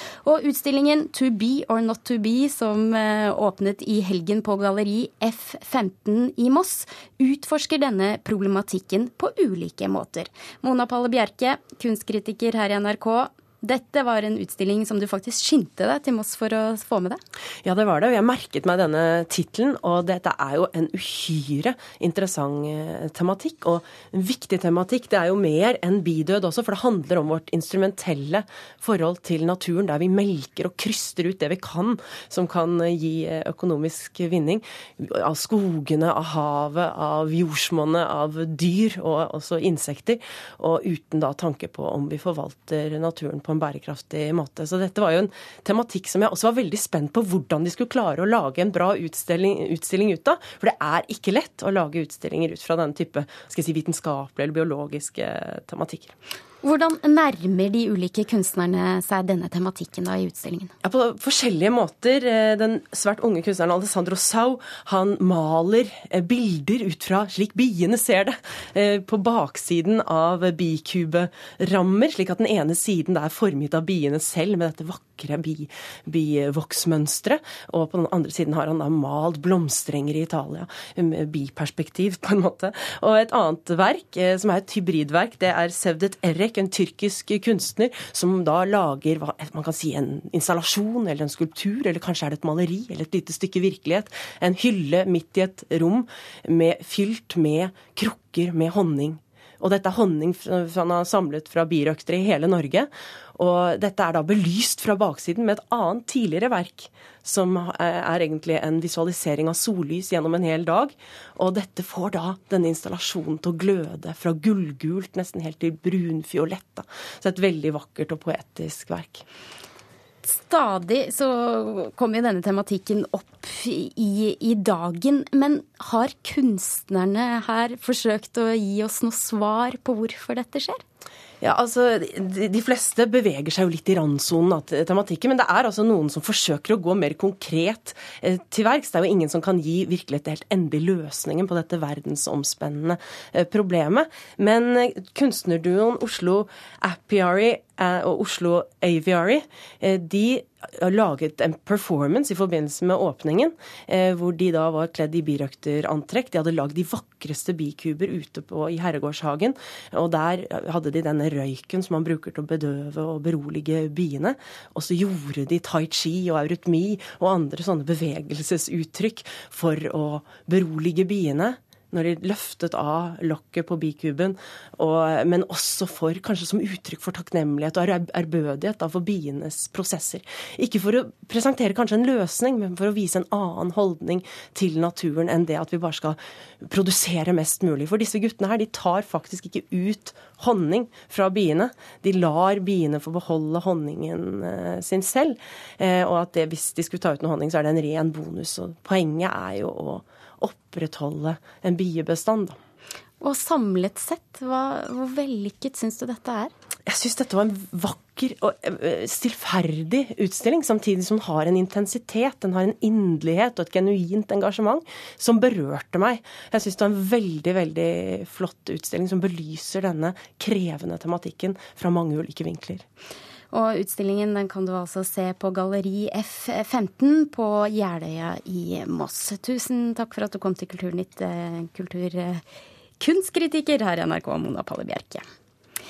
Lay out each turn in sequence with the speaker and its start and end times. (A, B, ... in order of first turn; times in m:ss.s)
0:00.2-0:17.2 A
0:17.6-0:56.1 B
0:56.6-1:00.7 A
1:00.8-1:59.2 B
2:00.2-2:10.8 A
2:11.4-3:22.6 B
3:23.2-3:26.5 A
3:26.9-3:42.8 B
3:43.5-3:52.4 A
3:53.0-3:55.2 A